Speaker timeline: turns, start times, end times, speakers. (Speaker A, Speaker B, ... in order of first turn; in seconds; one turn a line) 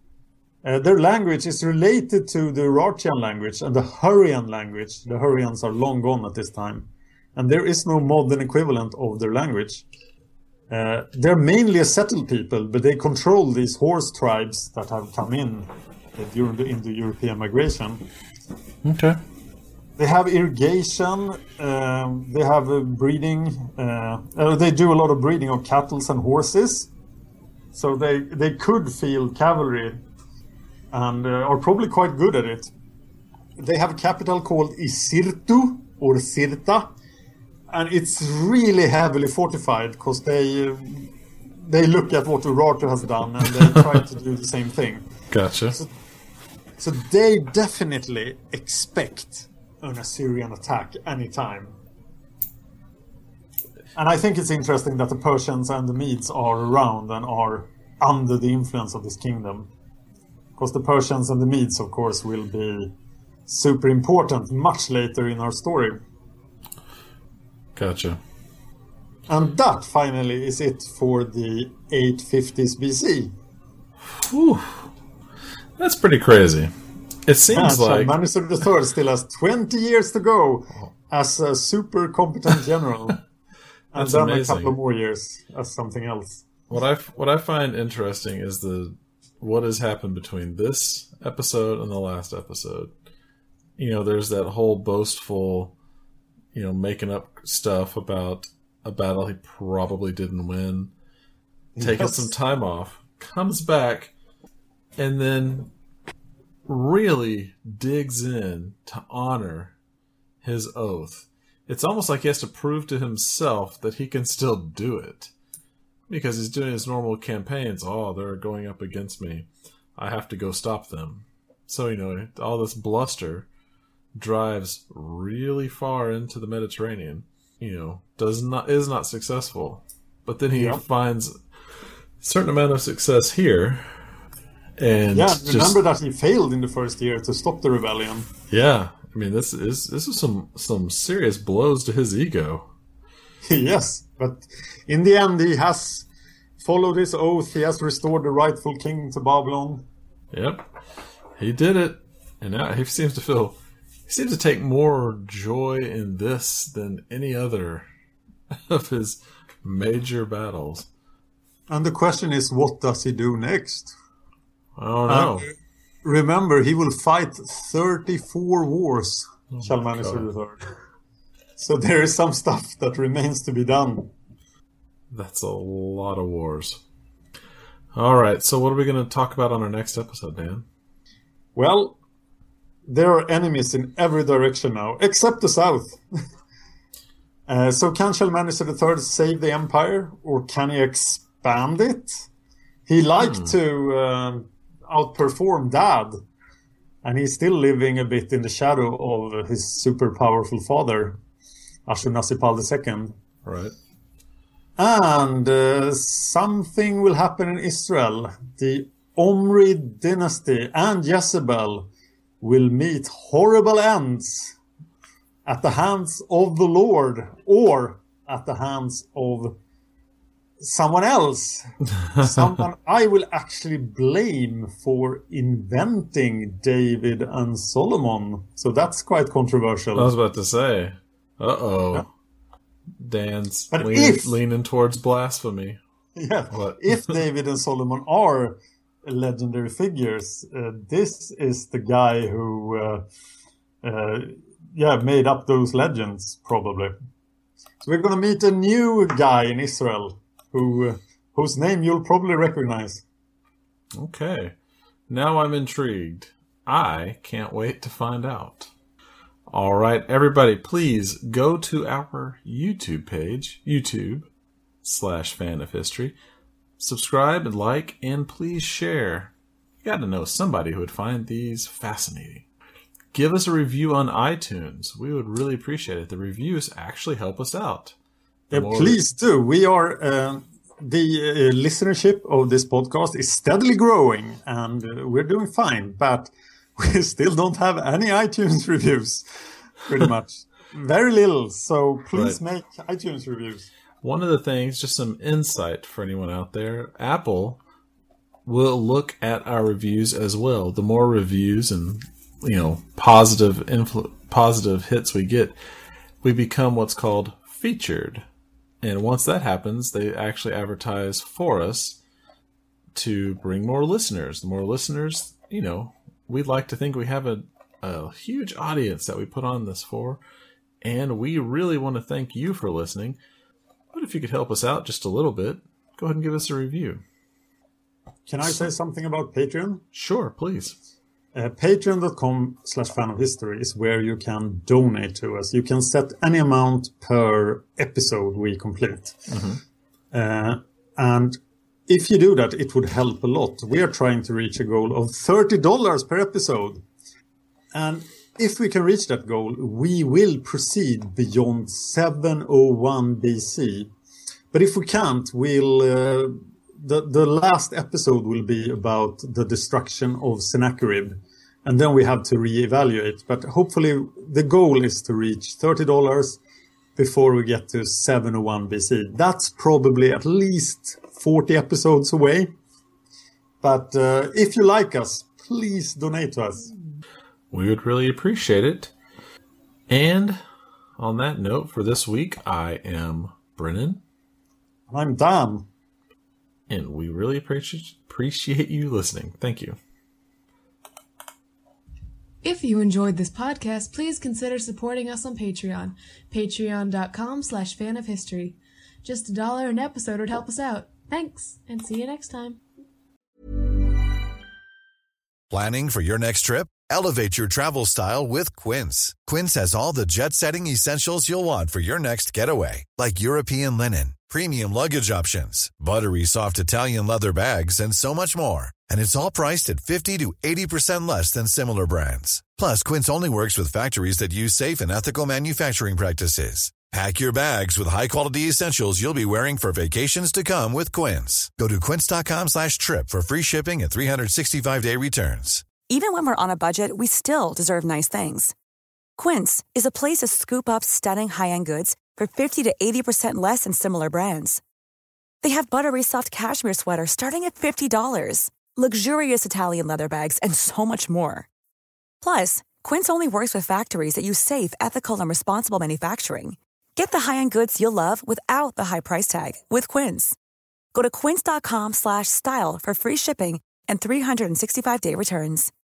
Speaker A: 0.6-9.8
Speaker A: 10.7-18.0
Speaker B: 18.8-19.2
Speaker A: 20.0-26.9
Speaker A: 27.7-30.0
Speaker A: 30.9-32.7
Speaker A: 33.6-36.9
Speaker A: 37.7-41.1
Speaker A: 41.6-45.0
Speaker B: 45.3-45.8
Speaker A: 46.8-51.8
Speaker A: 53.9-59.7
Speaker A: 60.6-62.9
Speaker A: 63.5-66.0
Speaker B: 67.8-68.2
Speaker A: 69.3-73.3
Speaker B: 74.2-74.8
Speaker B: 75.8-76.7
Speaker B: 77.2-78.1
Speaker A: 77.5-83.2
Speaker A: 83.9-86.4
Speaker B: 83.9-84.8
Speaker B: 86.7-92.9
Speaker B: 93.8-95.7
Speaker B: 96.5-100.9
Speaker A: 101.8-102.3
Speaker B: 101.8-104.1
Speaker B: 105.0-105.7
Speaker B: 106.7-109.7
Speaker B: 110.4-115.3
Speaker B: 116.1-123.5
Speaker B: 124.1-131.3
Speaker A: 130.5-130.8
Speaker B: 132.2-133.9
Speaker B: 134.8-135.8
Speaker A: 135.1-138.3
Speaker B: 138.5-142.7
Speaker A: 143.4-146.1
Speaker A: 146.6-149.8
Speaker B: 150.3-150.7
Speaker B: 151.4-157.8
Speaker B: 158.7-160.9
Speaker A: 161.7-163.9
Speaker B: 164.8-165.5
Speaker A: 165.1-165.5
Speaker A: 166.0-170.6
Speaker B: 169.5-170.3
Speaker A: 171.6-174.1
Speaker B: 175.1-176.8
Speaker B: 177.9-180.6
Speaker A: 181.6-182.0
Speaker A: 182.9-186.0
Speaker A: 187.5-192.3
Speaker A: 192.9-196.2
Speaker B: 193.2-193.5
Speaker A: 197.0-201.2
Speaker A: 201.9-203.1
Speaker B: 203.4-203.7
Speaker A: 204.8-211.9
Speaker A: 212.4-214.5
Speaker A: 215.4-219.6
Speaker A: 220.6-221.7
Speaker A: 222.2-230.1
Speaker B: 229.9-232.1
Speaker B: 233.0-235.8
Speaker A: 233.7-234.3
Speaker A: 236.2-243.0
Speaker B: 236.5-237.0
Speaker A: 243.8-246.9
Speaker A: 247.8-253.0
Speaker B: 253.9-254.5
Speaker B: 255.1-258.7
Speaker B: 259.5-264.3
Speaker B: 264.8-266.1
Speaker B: 266.8-269.3
Speaker B: 269.8-272.4
Speaker B: 273.1-277.9
Speaker B: 278.5-279.0
Speaker A: 278.5-289.2
Speaker A: 289.8-293.7
Speaker B: 292.1-292.4
Speaker B: 294.0-297.6
Speaker B: 298.4-305.6
Speaker B: 306.2-308.2
Speaker B: 308.8-312.0
Speaker B: 312.9-320.2
Speaker B: 320.8-323.2
Speaker B: 323.9-327.0
Speaker A: 328.3-329.8
Speaker B: 329.9-330.8
Speaker A: 331.3-339.2
Speaker B: 339.3-339.6
Speaker A: 340.1-346.8
Speaker A: 347.7-353.9
Speaker A: 354.5-366.4
Speaker A: 366.9-372.5
Speaker A: 373.6-376.7
Speaker B: 377.5-378.9
Speaker B: 379.9-380.4
Speaker B: 381.0-384.0
Speaker A: 384.9-385.6
Speaker B: 386.7-389.8
Speaker C: 392.4-402.6
Speaker D: 405.5-435.7
Speaker E: 435.9-438.5
Speaker E: 439.2-444.6
Speaker E: 445.4-451.5
Speaker E: 452.2-460.4
Speaker E: 460.9-465.7